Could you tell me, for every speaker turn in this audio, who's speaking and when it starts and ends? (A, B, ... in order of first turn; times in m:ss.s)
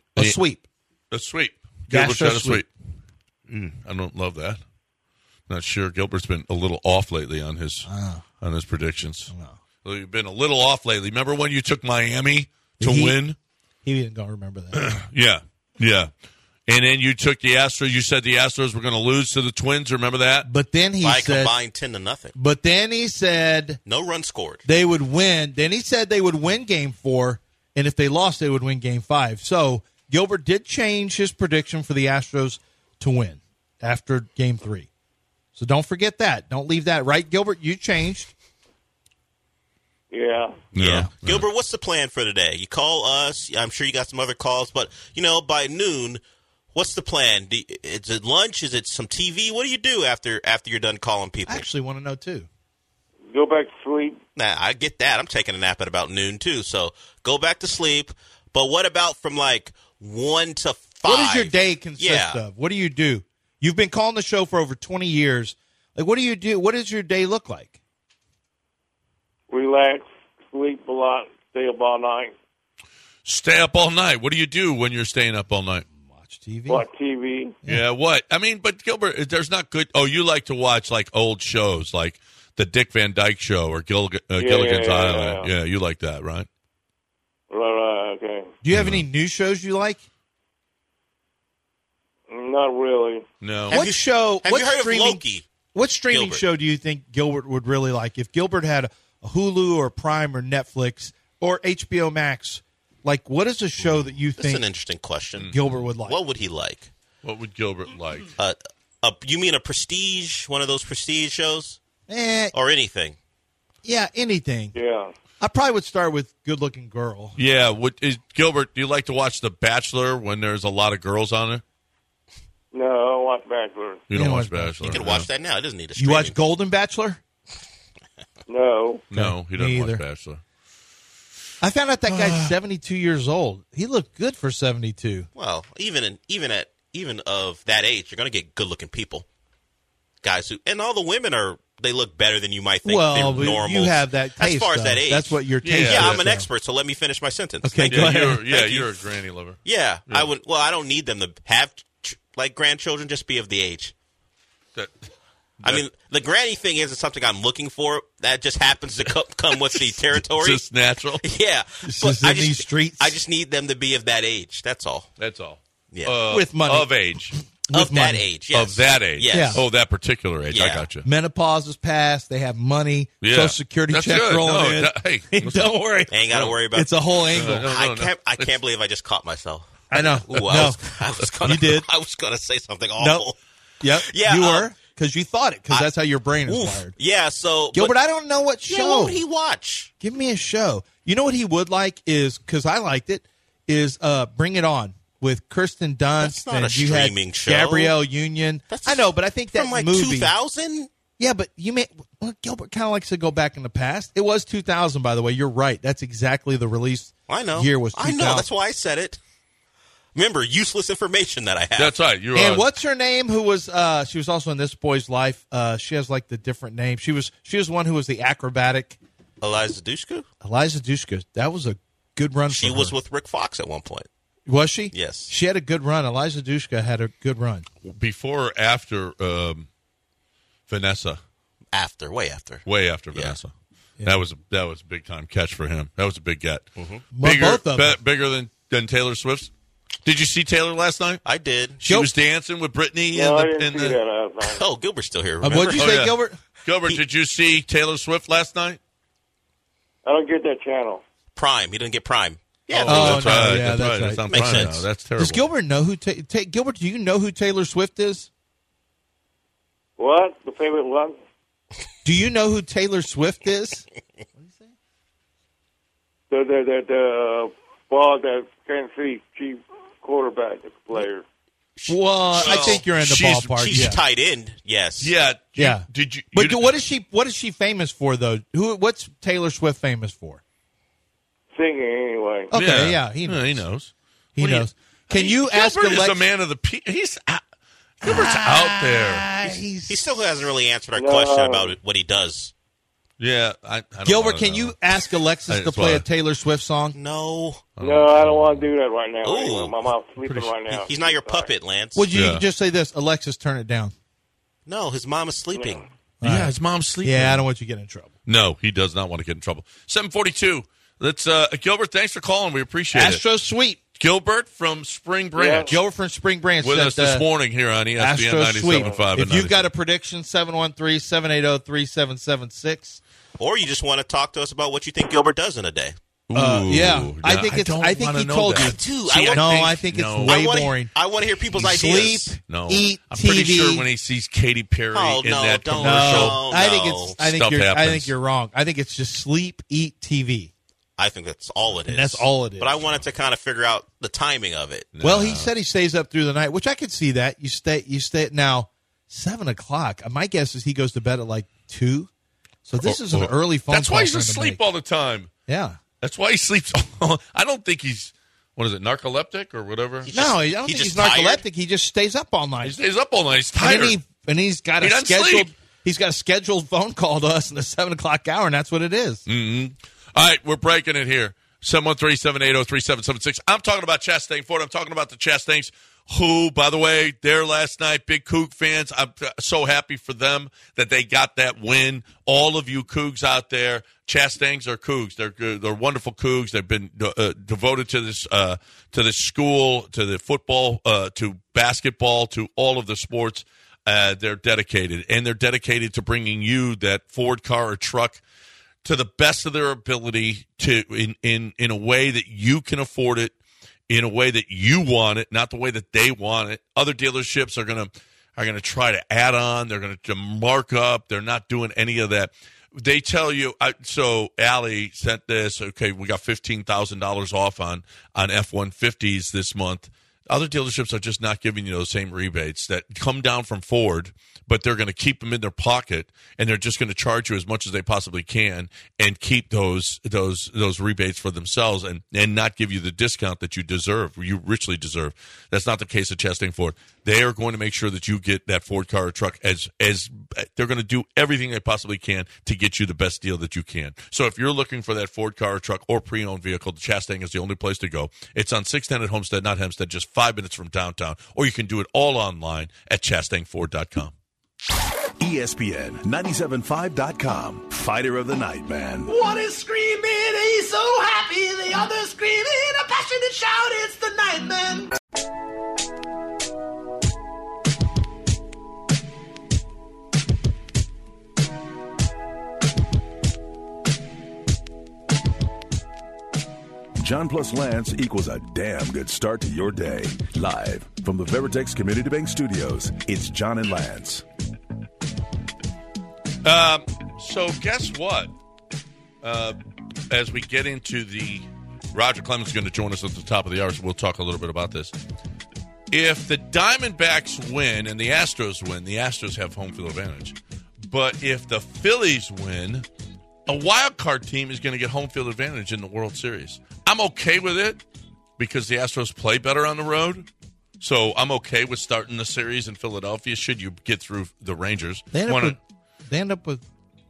0:00.1-0:00.6 A
0:01.1-0:02.7 B
0:01.9-0:02.6 A
0:03.5-0:04.6 B
0:05.5-0:07.9 B
0:07.9-0:08.2 A
0:08.4-0:09.3 B
0:09.3-0:09.6 A
0:09.8-0:13.4 B
0:12.8-0:13.2 A
0:13.8-0:14.9 A
0:14.7-0:16.1 B
0:16.7-0:20.5 B
0:20.4-0:21.5 A
0:21.0-0:22.4 C
0:22.4-0:23.8 A
0:23.8-0:24.6 C
0:24.6-0:34.9 A
0:35.6-0:38.3 A
0:40.1-0:40.6 D
0:40.7-0:41.4 B
0:40.8-0:46.2 C
0:40.8-0:41.1 A
0:46.7-0:51.6 C
0:51.5-0:52.5 A
0:53.3-0:54.2 D
0:54.4-1:02.4 C
1:01.0-1:07.8 A
1:09.5-1:12.4 D
1:13.2-1:15.9 B
1:16.1-1:16.8 A
1:16.7-1:17.6 D
1:17.6-1:26.5 B
1:24.4-1:25.5 D
1:27.5-1:28.5 D
1:28.6-1:30.0 A
1:28.7-1:29.0 B
1:32.3-1:33.2 D
1:33.4-1:33.8 B
1:33.7-1:35.5 C
1:33.7-1:35.2 A
1:35.7-1:44.6 A
1:36.1-1:36.4 C
1:44.4-1:46.9 C
1:45.5-1:46.2 A
1:47.2-1:48.3 B
1:48.4-1:51.8 C
1:52.1-1:52.5 A
1:52.5-1:53.2 C
1:53.8-1:54.8 A
1:54.7-1:55.1 D
1:55.4-1:57.4 A
1:57.4-2:01.6 B
2:02.7-2:04.1 D
2:04.1-2:05.3 B
2:04.1-2:05.0 A
2:04.9-2:06.4 C
2:06.0-2:07.2 A
2:08.5-2:09.1 D
2:09.1-2:10.4 B
2:09.1-2:10.0 A
2:11.6-2:15.3 A
2:12.1-2:12.5 B
2:15.4-2:19.2 C
2:20.2-2:28.9 C
2:22.8-2:26.5 A
2:25.6-2:26.2 B
2:27.6-2:28.5 A
2:27.9-2:30.3 B
2:29.6-2:33.9 C
2:34.8-2:35.1 B
2:35.6-2:40.6 C
2:40.1-2:41.2 B
2:41.2-2:45.1 C
2:41.8-2:43.2 A
2:45.2-2:47.4 B
2:46.3-2:46.9 A
2:47.6-2:48.2 A
2:47.7-2:49.6 C
2:48.5-2:51.1 B
2:49.3-2:49.6 A
2:50.5-2:50.9 C
2:51.0-2:56.1 A
2:53.2-2:55.7 B
2:56.1-3:03.4 C
2:56.3-2:56.5 B
2:56.7-2:57.7 A
2:57.3-2:58.5 B
2:59.9-3:00.8 A
3:01.4-3:01.9 A
3:03.0-3:03.2 A
3:03.8-3:06.9 A
3:04.1-3:04.7 C
3:06.5-3:07.9 C
3:07.7-3:09.2 A
3:08.7-3:09.9 C
3:10.0-3:20.3 A
3:16.2-3:18.0 C
3:18.7-3:20.9 C
3:21.2-3:28.5 A
3:27.3-3:29.2 C
3:30.2-3:31.9 C
3:31.8-3:32.7 B
3:32.4-3:39.0 A
3:39.4-3:40.3 C
3:40.4-3:42.9 A
3:42.5-3:44.1 C
3:44.5-3:47.6 A
3:44.9-3:45.3 C
3:47.8-3:49.7 B
3:50.7-3:51.2 B
3:51.7-3:53.4 C
3:52.6-3:53.5 B
3:54.0-3:59.5 B
3:57.1-3:58.0 A
4:00.0-4:01.2 B
4:01.2-4:01.8 C
4:01.8-4:04.0 B
4:01.8-4:02.1 A
4:03.1-4:04.6 D
4:04.4-4:06.1 C
4:05.4-4:06.4 A
4:05.5-4:08.8 B
4:10.0-4:11.0 D
4:11.4-4:13.4 C
4:12.7-4:15.4 B
4:12.9-4:14.6 A
4:14.3-4:14.8 C
4:15.2-4:18.3 A
4:20.0-4:21.2 D
4:22.0-4:23.8 A
4:24.4-4:24.7 A
4:26.3-4:31.2 D
4:31.8-4:32.9 C
4:31.9-4:34.0 A
4:32.4-4:33.8 B
4:33.6-4:35.1 C
4:35.0-4:36.7 B
4:35.6-4:40.4 A
4:41.5-4:42.5 D
4:42.5-4:43.6 A
4:42.5-4:47.4 B
4:44.4-4:46.2 A
4:48.0-4:49.6 B
4:48.0-4:50.0 A
4:49.9-4:52.5 C
4:51.0-4:51.8 D
4:53.2-4:54.8 B
4:54.0-4:57.0 A
4:55.5-4:56.0 B
4:56.9-4:57.7 C
4:57.8-4:58.7 B
4:57.8-5:01.5 D
4:59.2-4:59.8 C
5:00.7-5:02.1 C
5:01.9-5:03.9 A
5:02.1-5:02.4 B
5:04.6-5:05.8 C
5:05.5-5:05.8 D
5:06.2-5:08.1 A
5:06.2-5:07.4 B
5:08.2-5:13.2 B
5:12.9-5:13.8 A
5:14.0-5:15.8 B
5:15.4-5:15.8 D
5:15.7-5:17.2 A
5:16.6-5:19.7 B
5:18.0-5:23.0 A
5:18.7-5:19.0 D
5:23.4-5:25.9 C
5:26.3-5:30.4 B
5:26.3-5:30.9 A
5:28.6-5:32.4 C
5:31.5-5:33.9 A
5:32.5-5:36.4 B
5:34.9-5:37.2 C
5:35.8-5:40.5 A
5:37.2-5:38.1 B
5:41.0-5:44.9 C
5:41.9-5:42.8 A
5:44.9-5:45.5 B
5:45.0-5:52.1 A
5:52.6-5:54.6 A
5:52.8-5:55.3 B
5:55.5-5:55.8 A
5:56.0-6:00.1 B
6:00.1-6:01.4 C
6:00.1-6:02.8 A
6:02.6-6:04.0 B
6:03.6-6:09.2 A
6:04.8-6:05.5 B
6:09.3-6:38.2 B
6:38.8-6:43.4 B
6:43.9-7:34.1 B
7:35.2-7:39.2 E
7:39.5-7:43.3 F
7:43.8-7:44.2 F
7:57.0-8:04.2 E
8:06.4-8:08.3 B
8:09.2-8:09.6 B
8:10.1-8:14.9 B
8:15.9-8:22.9 B
8:23.5-8:27.8 B
8:28.4-8:30.3 B
8:30.8-8:35.6 B
8:35.1-8:36.6 A